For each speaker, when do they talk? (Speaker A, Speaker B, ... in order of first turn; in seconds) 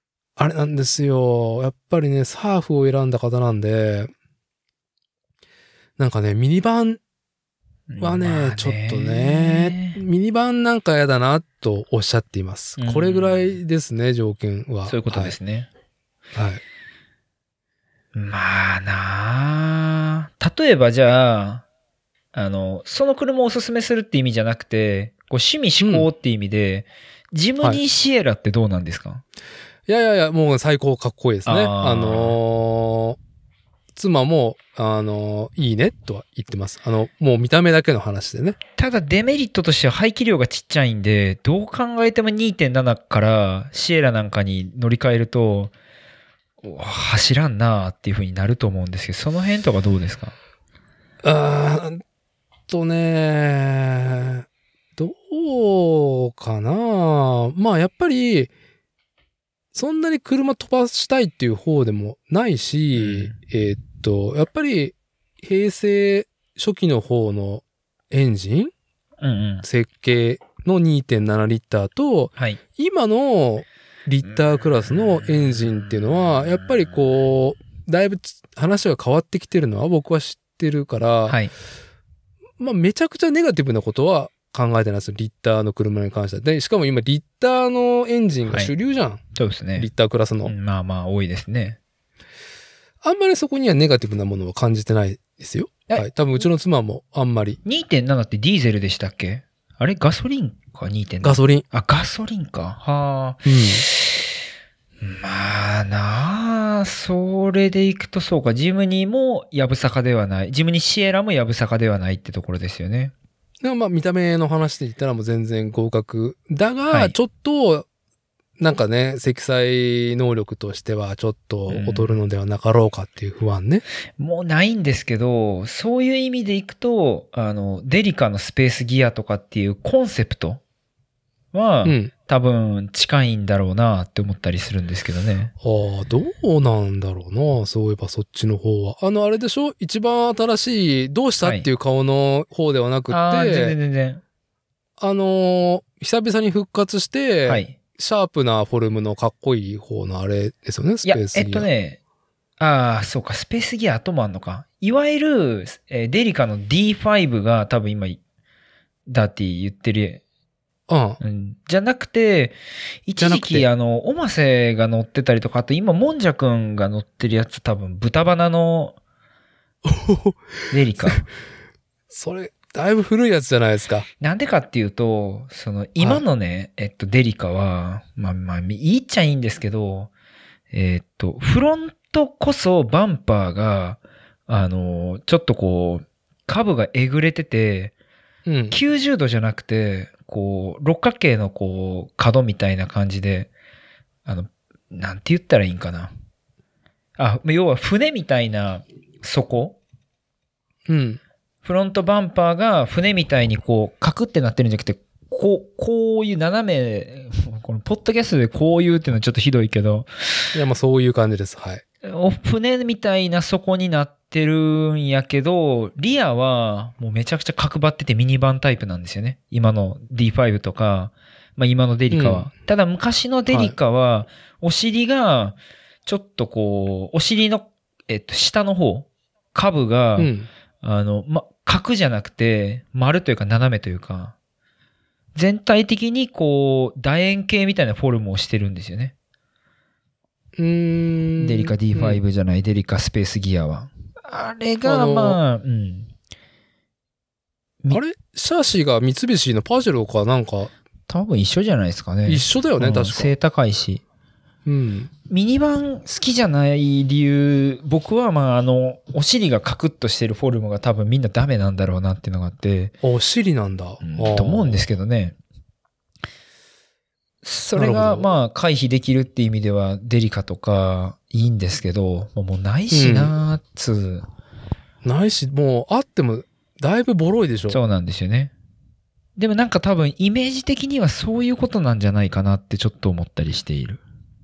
Speaker A: 0.4-4.1, 6.0-7.0, 8.0-15.3, 16.3-16.6, 25.8-26.1, 29.9-33.2, 34.0-38.6, 51.2-52.0, 52.7-54.5, 55.0-58.5, 59.7-68.7, 69.6-81.4, 82.6-89.2, 89.8-90.5, 93.0-97.6, 101.2-101.6, 103.5-103.9, 113.6-117.9, 118.6-123.8, 131.8-132.1, 135.6-143.8, 145.0-151.7, 160.9-161.2, 163.2-163.7, 169.8-170.4, 172.1-174.1, 176.0-176.2, 188.5-188.8, 200.9-201.2, 210.5-211.8, 222.1-222.5, 223.5-223.8, 230.2-230.5, 240.6-242.2, 244.8-245.4, 247.9-250.7, 252.3-253.3, 254.7-255.1, 263.0-264.8, 267.8-268.3, 272.9-273.3, 275.0-277.8
Speaker B: 7.9-10.0, 12.8-13.6, 14.9-15.7, 18.1-21.6, 22.3-29.2, 31.5-32.4, 38.8-45.7, 46.6-50.4, 63.0-63.3, 69.2-69.6, 74.9-76.9, 81.3-81.5, 88.5-88.7, 89.3-89.9, 90.5-91.8, 97.7-104.3, 105.0-113.1, 116.9-117.2, 121.7-122.2, 124.2-130.6, 131.5-135.5, 143.1-144.2, 147.5-147.8, 151.1-152.0, 152.6-158.2, 159.1-160.2, 161.2-162.6, 163.1-168.9, 170.7-171.3, 174.2-180.1, 180.7-187.9, 188.7-193.5, 194.3-196.1, 197.2-199.8, 201.6-210.4, 212.0-230.3, 230.8-234.3, 235.3-239.1, 241.4-246.1, 251.1-254.0, 255.3-262.9, 264.0-265.4, 267.4-274.3, 277.7-278.5, 279.4-284.0